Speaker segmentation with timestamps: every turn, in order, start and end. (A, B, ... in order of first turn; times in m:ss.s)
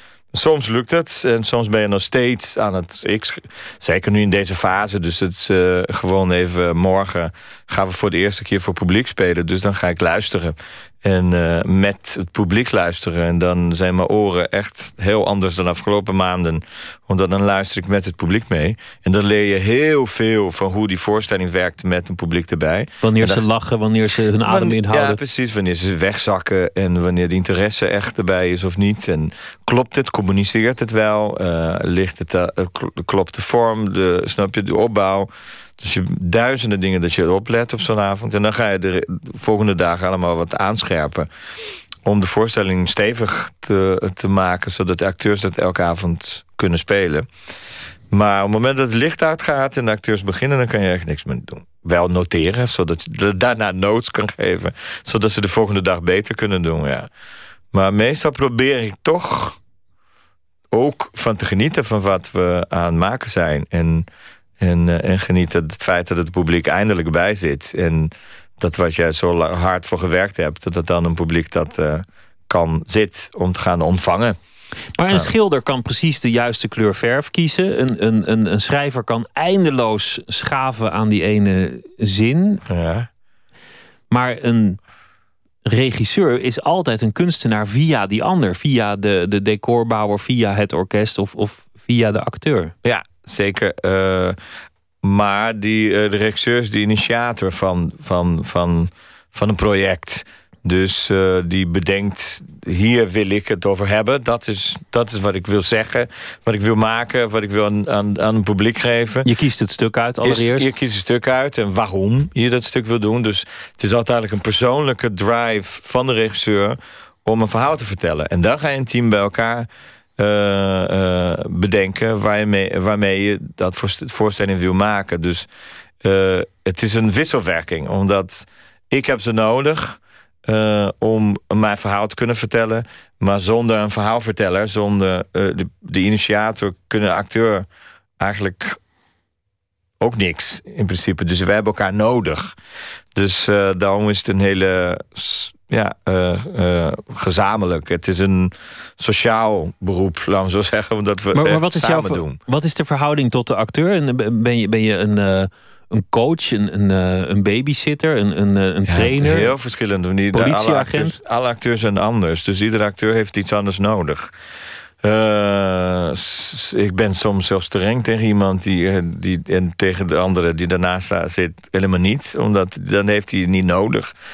0:00.3-0:23.4 A
0:23.0-0:25.2 B
0:24.4-0:41.3 A
0:42.0-0:47.3 A
0:48.1-0:57.1 A
0:57.7-0:59.6 A
1:00.7-1:04.1 A
1:04.6-1:14.4 A
1:15.0-1:22.6 B
1:22.7-1:23.1 A
1:24.1-1:24.8 B
1:25.6-1:32.7 B
1:32.8-1:34.4 A
1:35.0-1:49.3 A
1:49.2-1:50.7 B
1:50.2-2:05.5 A
2:06.0-2:17.7 A
2:18.2-2:18.8 A
2:20.0-2:22.6 A
2:23.1-2:32.4 A
2:31.3-2:39.5 B
2:38.9-2:44.3 A
2:40.3-2:41.2 B
2:45.0-2:54.1 A